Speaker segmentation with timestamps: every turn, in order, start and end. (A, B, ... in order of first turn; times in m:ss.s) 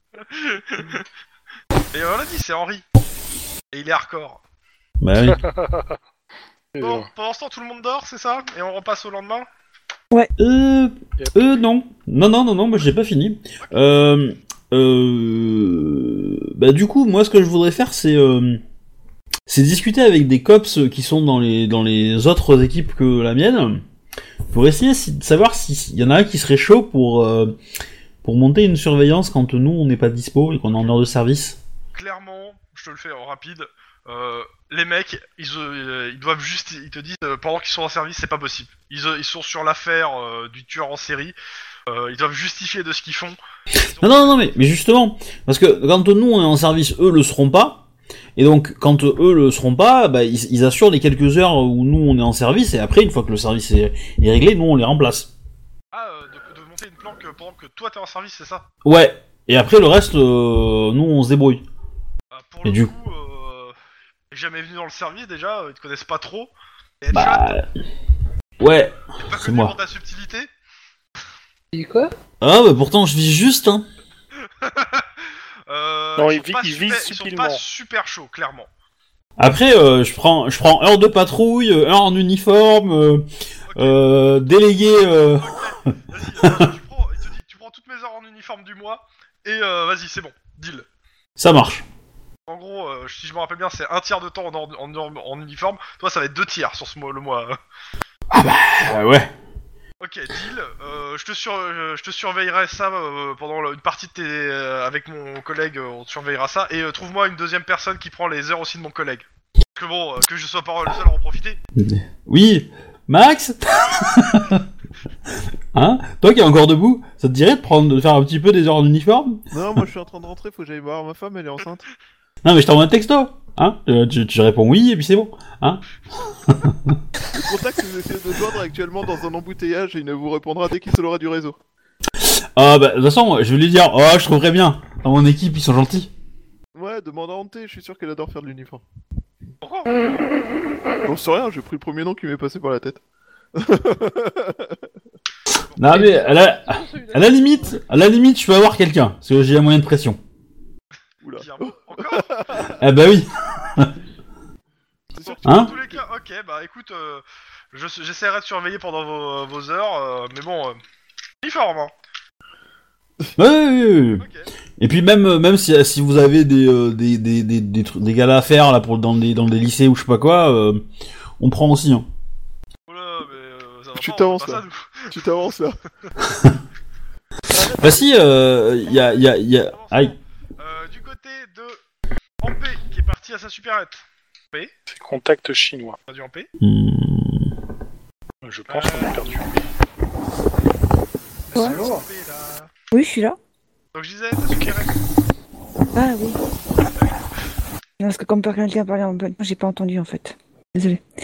0:00.2-0:01.0 A
0:01.9-0:02.8 A
0:03.7-0:04.4 A
0:05.0-0:05.4 B
0:05.4-0:06.0 C
0:06.7-0:07.1 C
0:06.8-0:09.4 A
0:10.4-0:18.6 B
0:11.2-0:11.4 C
0:13.6-0:13.9 A
0:19.5-0:23.8 B
0:24.5-0:27.6 B
0:28.2-0:31.6 B
0:30.7-0:31.0 A
0:31.9-0:41.3 A
0:41.9-0:44.7 A
0:44.0-0:47.8 B
0:48.4-0:55.3 B
0:55.9-0:58.6 A
0:58.8-1:01.6 B
1:02.3-1:03.8 A
1:02.6-1:02.9 B
1:04.3-1:07.6 A
1:07.1-1:07.6 B
1:08.6-1:09.7 B
1:09.2-1:10.5 A
1:11.7-1:12.1 D
1:12.4-1:13.9 B
1:14.6-1:18.7 A
1:16.2-1:17.6 C
1:19.4-1:25.6 B
1:23.7-1:24.0 A
1:25.3-1:30.8 A
1:26.4-1:26.7 B
1:31.4-1:31.8 B
1:32.5-1:37.6 A
1:38.3-1:39.3 B
1:40.0-1:51.6 A
1:51.8-1:54.6 B
1:55.7-1:59.4 B
1:59.5-2:01.8 E
2:02.4-2:05.8 B
2:06.5-2:07.0 B
2:07.4-2:11.6 E
2:12.2-2:16.1 B
2:16.7-2:18.8 E
2:19.6-2:20.0 A
2:21.0-2:23.0 E
2:23.5-2:24.9 E
2:25.7-2:26.2 A
2:25.8-2:30.2 B
2:25.9-2:27.8 D
2:31.2-2:32.8 E
2:31.4-2:32.5 A
2:32.8-2:33.9 B
2:35.1-2:36.0 E
2:35.2-2:40.8 A
2:35.4-2:35.7 B
2:41.4-2:41.9 A
2:43.4-2:44.2 B
2:44.2-2:44.5 A
2:44.8-2:50.8 B
2:51.4-2:52.0 B
2:52.9-2:55.2 A
2:54.0-2:55.8 E
2:56.2-2:56.5 B
2:57.7-3:00.1 B
2:58.8-3:01.8 A
3:02.4-3:04.7 A
3:04.9-3:06.0 C
3:06.1-3:06.5 A
3:06.6-3:07.5 B
3:08.4-3:09.7 C
3:08.7-3:09.4 A
3:11.5-3:12.7 A
3:11.5-3:12.0 F
3:11.6-3:12.0 C
3:12.9-3:13.4 F
3:13.9-3:14.9 A
3:14.5-3:14.8 C
3:15.9-3:16.4 F
3:16.8-3:17.2 A
3:18.0-3:21.0 F